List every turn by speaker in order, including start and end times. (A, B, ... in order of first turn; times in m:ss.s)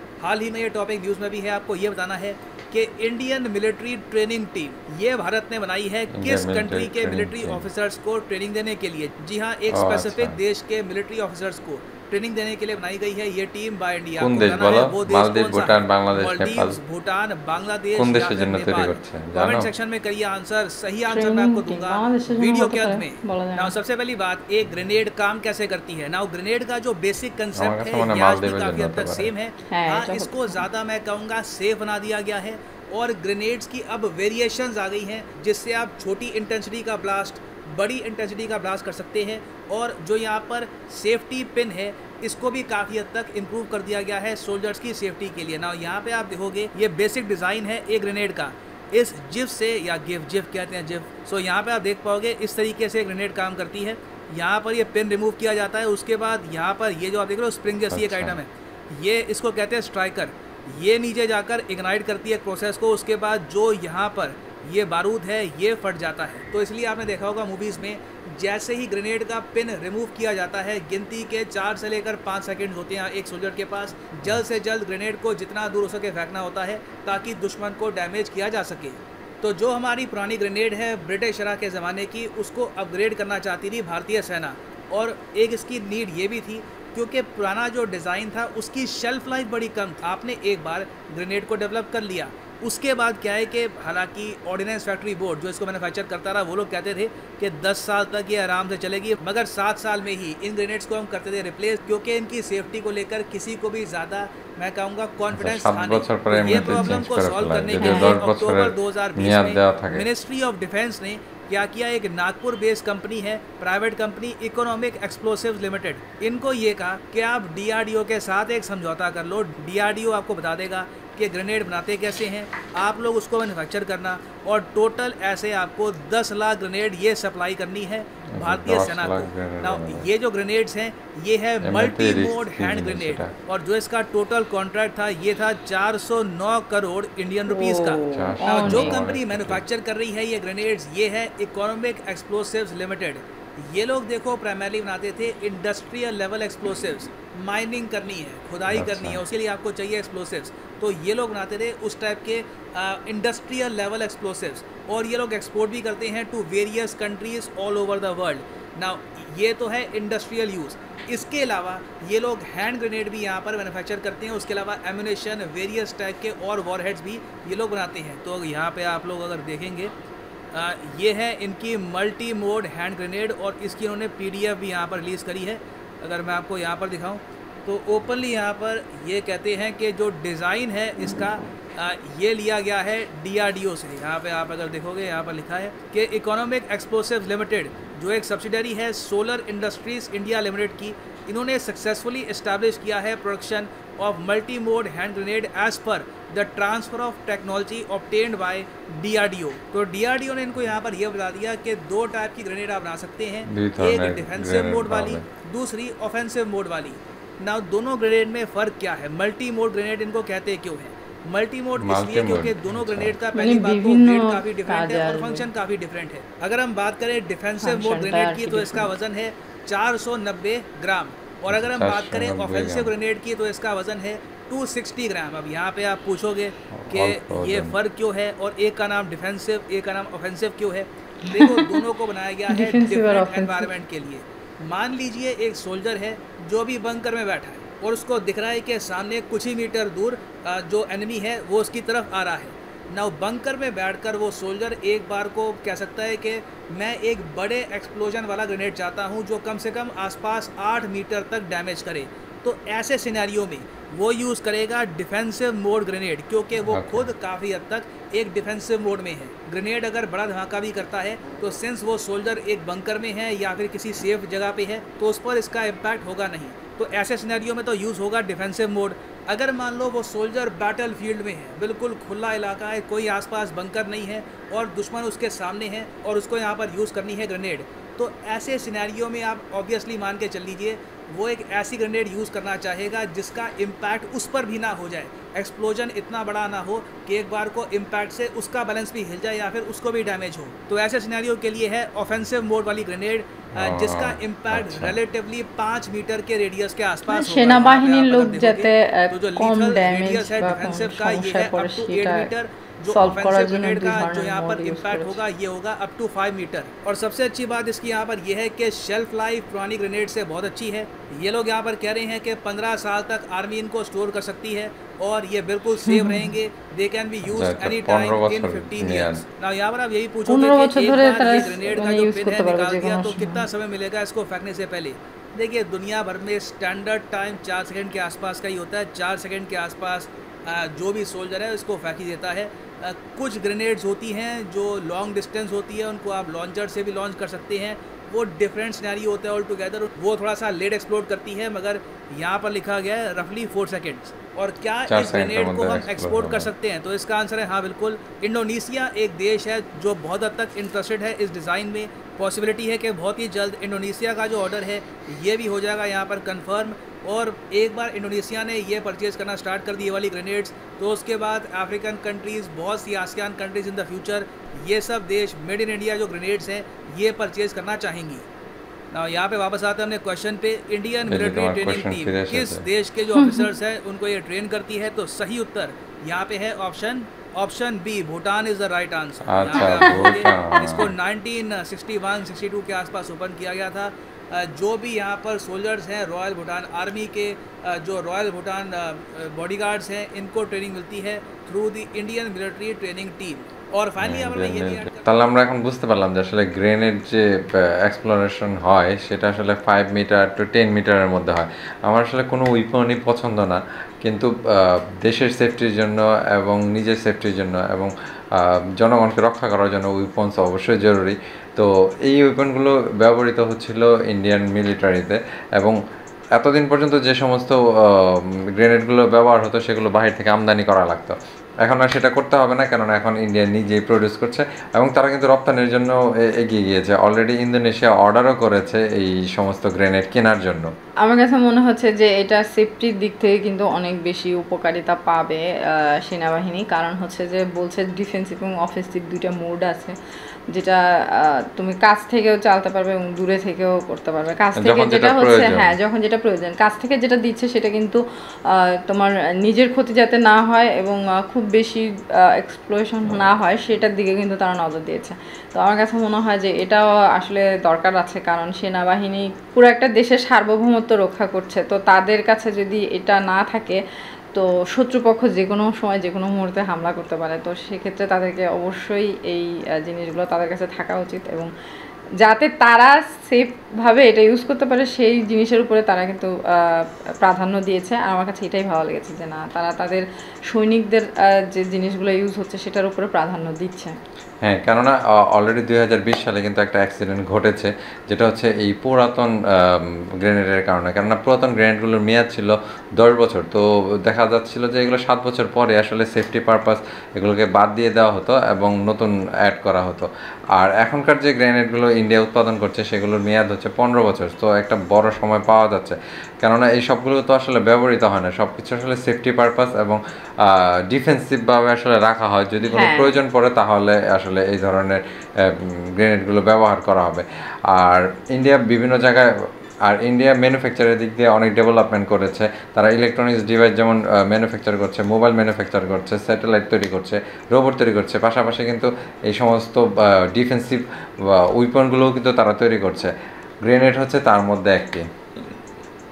0:00.2-2:49.9 A
0:06.1-0:07.6 B
0:09.7-0:10.4 B
0:14.2-0:16.8 B
0:18.0-0:19.7 B
0:21.1-0:23.7 C
0:27.6-0:29.3 B
0:29.7-0:30.6 C
0:57.9-0:58.4 B
1:45.3-1:50.1 B
1:47.8-1:48.2 C
2:08.3-2:10.1 B
2:11.6-2:13.3 B
2:17.5-2:19.0 C
2:18.1-2:19.6 B
2:28.7-2:29.2 B
2:50.5-6:08.2 A
3:23.5-3:25.2 B
3:31.8-3:33.2 B
3:33.3-3:35.5 C
3:37.6-3:38.9 C
3:41.5-3:42.9 B
3:46.7-3:47.8 B
3:51.3-3:51.8 C
3:52.5-3:53.7 C
4:16.7-4:17.1 B
4:53.6-4:55.0 B
4:57.1-5:02.3 C
5:02.9-5:05.2 C
5:15.9-5:16.4 C
5:17.2-5:19.2 B
5:20.3-5:23.5 C
5:44.9-5:46.5 B
6:08.9-6:35.5 A
6:11.1-6:12.7 B
6:13.2-6:13.5 C
6:19.2-6:20.9 B
6:19.6-6:20.3 C
6:34.0-6:55.8 B
6:56.3-7:10.7 B
7:11.0-7:20.0 C
7:20.5-7:43.8 C
7:24.6-7:25.7 B
7:44.3-7:51.5 C
7:52.2-8:04.0 C
8:04.4-8:53.1 B
8:32.6-8:33.2 C
8:53.6-8:55.1 B